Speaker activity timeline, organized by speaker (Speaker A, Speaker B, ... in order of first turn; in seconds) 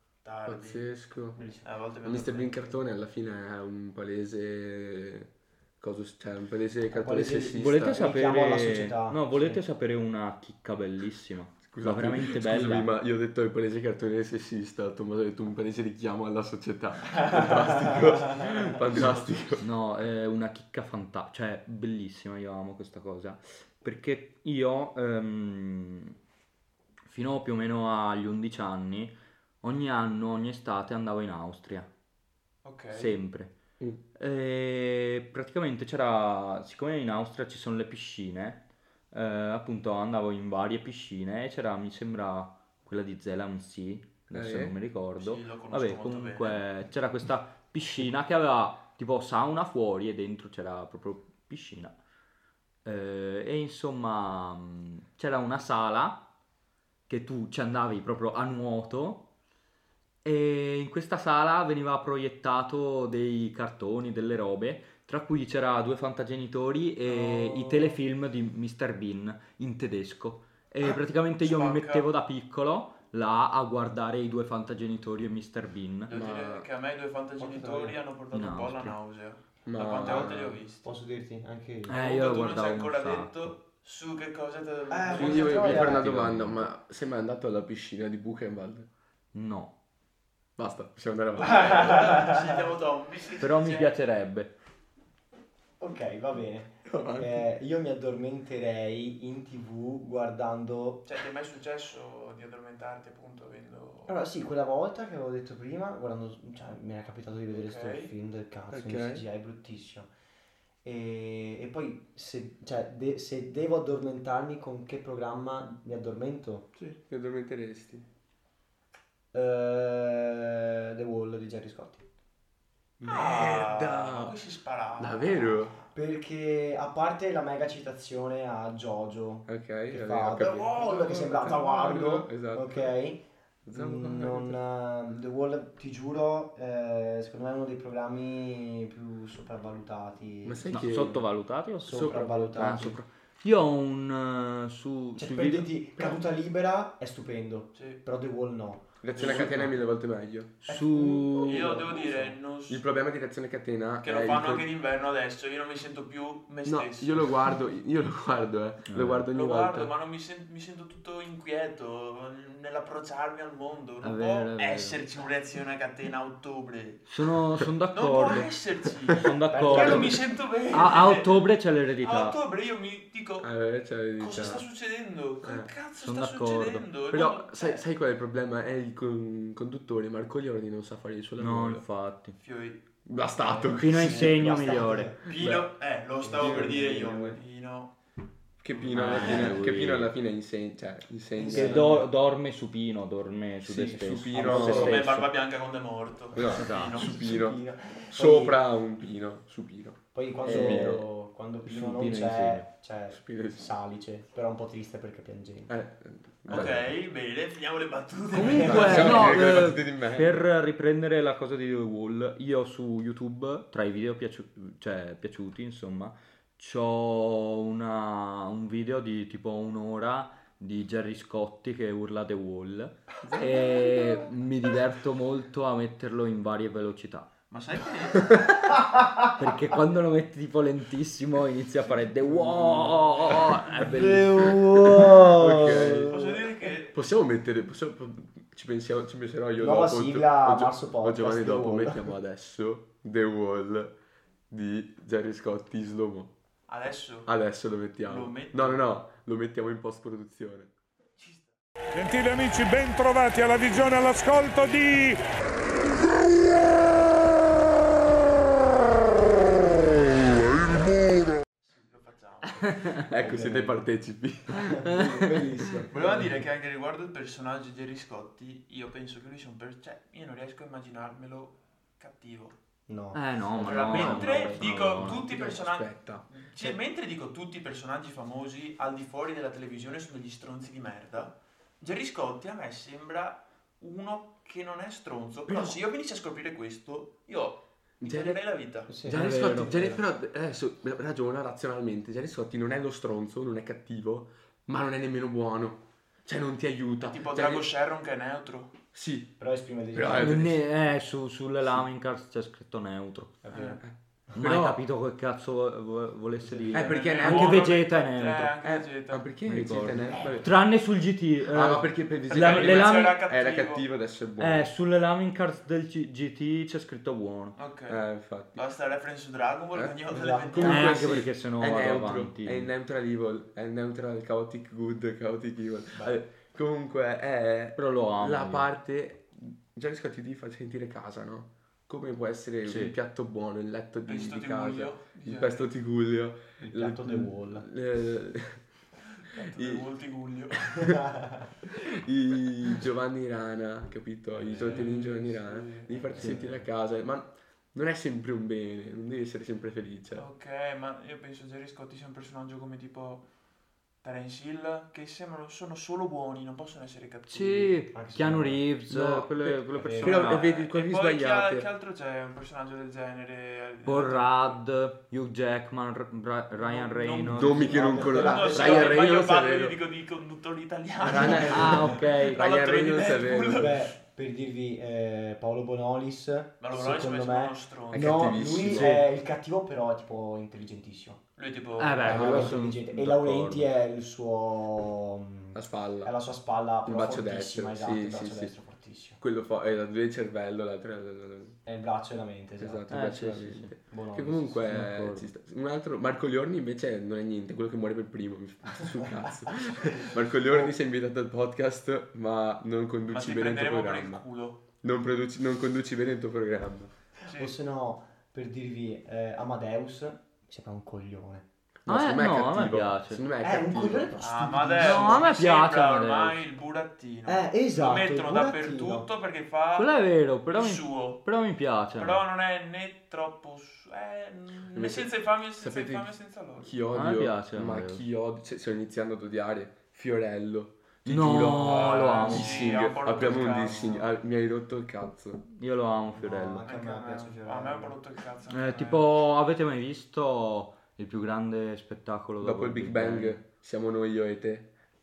Speaker A: 0.2-0.9, 1.6-2.8, 17.9-19.5, 32.6-33.2, 45.1-46.6, 67.1-68.0, 70.8-72.1, 76.1-80.9, 81.9-85.8, 91.4-94.0, 101.0-104.1, 107.5-108.1, 123.1-125.9, 130.8-131.9, 147.8-148.0, 151.4-152.8, 154.0-157.3, 159.3-167.1, 167.9-171.4, 172.0-173.5, 174.2-177.8, 182.4-182.8, 185.2-188.0, 188.7-189.6, 194.5-197.1, 206.5-209.5, 227.5-228.5, 236.1-237.0, 246.7-247.3, 248.1-248.8, 251.2-251.5, 260.5-260.9, 261.6-263.0, 265.9-272.6, 273.6-288.9, 297.0-298.8, 303.5-303.8, 306.8-309.3, 312.3-313.9, 317.6-321.2, 334.1-335.7, 339.3-341.0, 344.3-346.2, 350.1-353.3, 354.0-357.9, 360.1-364.6, 366.6-373.8, 376.6-378.4, 381.4-382.5, 403.1-404.6, 407.3-407.5, 414.2-420.0, 420.5-421.3, 421.9-426.7, 431.5-434.1, 436.6-439.1
Speaker B: 0.5-1.4, 2.0-8.1, 11.7-19.6, 44.3-44.8, 76.1-76.7, 79.7-80.6, 85.1-88.9, 90.6-91.8, 96.8-97.5, 108.7-109.2, 117.0-118.1, 123.0-124.4, 125.0-125.8, 129.5-132.9, 133.6-134.6, 140.4-141.3, 149.0-150.6, 152.7-154.7, 156.6-159.9, 173.4-174.6, 175.4-175.7, 177.1-181.8, 183.1-184.5, 185.3-185.7, 186.4-186.8, 188.6-192.0, 193.6-195.1, 196.3-201.1, 203.1-203.7, 205.7-206.9, 208.5-210.5, 223.2-224.2, 232.2-233.6, 234.2-236.2, 236.9-243.9, 244.5-246.3, 247.2-250.7, 263.0-265.3, 273.8-274.1, 274.8-276.7, 285.5-285.8, 288.0-288.4, 289.0-297.7, 298.9-299.3, 299.9-300.7, 301.6-301.9, 303.8-304.8, 306.7-307.8, 308.6-310.6, 311.5-314.7, 317.9-318.6, 320.5-338.7, 339.3-339.9, 341.6-350.3, 358.9-361.7, 367.3-369.8, 371.0-373.8, 377.9-379.0, 382.1-382.6, 385.5-386.1, 386.9-388.6, 389.2-391.6, 392.6-404.2, 404.8-406.9, 411.9-414.1, 424.7-435.4, 442.4-444.7
Speaker C: 1.4-1.6, 6.9-9.6, 17.2-18.2, 77.4-78.0, 80.0-82.0, 84.9-86.1, 91.5-92.6, 95.8-101.1, 104.1-110.1, 110.8-116.7, 119.3-122.0, 125.9-141.1, 141.8-143.0, 145.2-149.9, 150.7-152.3, 169.5-170.2, 183.4-185.3, 186.2-187.4, 191.4-192.1, 193.7-195.0, 197.0-198.6, 200.1-205.8, 208.5-209.2, 228.9-229.3, 233.8-236.5, 239.6-242.1, 263.1-263.9, 264.6-266.2, 272.9-274.9, 288.9-290.0, 299.4-300.4, 303.4-304.4, 306.4-306.8, 310.1-310.4, 320.1-320.9, 336.6-337.6, 340.8-341.5, 357.9-358.6, 359.8-360.2, 367.6-369.0, 373.6-381.2, 382.0-389.2, 391.6-392.9, 393.8-394.6, 400.5-400.7, 407.2-411.4, 413.4-415.3, 417.3-419.1, 436.1-437.9
Speaker D: 7.5-12.9, 19.6-26.1, 27.1-31.9, 32.9-33.5, 34.2-52.0, 52.9-56.3, 57.1-59.3, 60.2-76.1, 78.3-79.0, 81.9-83.5, 85.7-86.6, 89.3-89.7, 93.4-94.5, 140.7-145.7, 150.7-151.8, 158.9-159.2, 164.0-165.0, 167.1-168.5, 169.1-172.4, 176.0-176.8, 181.4-182.4, 183.7-185.1, 188.9-190.1, 191.5-195.3, 196.5-197.1, 200.5-201.0, 201.7-202.7, 208.3-227.3, 229.4-234.6, 262.6-263.0, 264.6-265.5, 273.1-275.2, 289.1-289.9, 300.1-303.4, 304.4-308.6, 309.5-313.1, 314.4-317.6, 320.6-322.7, 327.8-328.7, 332.6-332.9, 346.2-346.6, 357.3-360.4, 363.9-367.7, 371.0-372.4, 378.6-379.1, 381.8-383.7, 392.9-393.7, 394.7-395.3, 411.9-413.2, 414.8-416.4, 419.8-422.2, 426.9-428.0, 431.1-432.8, 435.5-436.6, 438.5-443.4
Speaker E: 251.9-255.2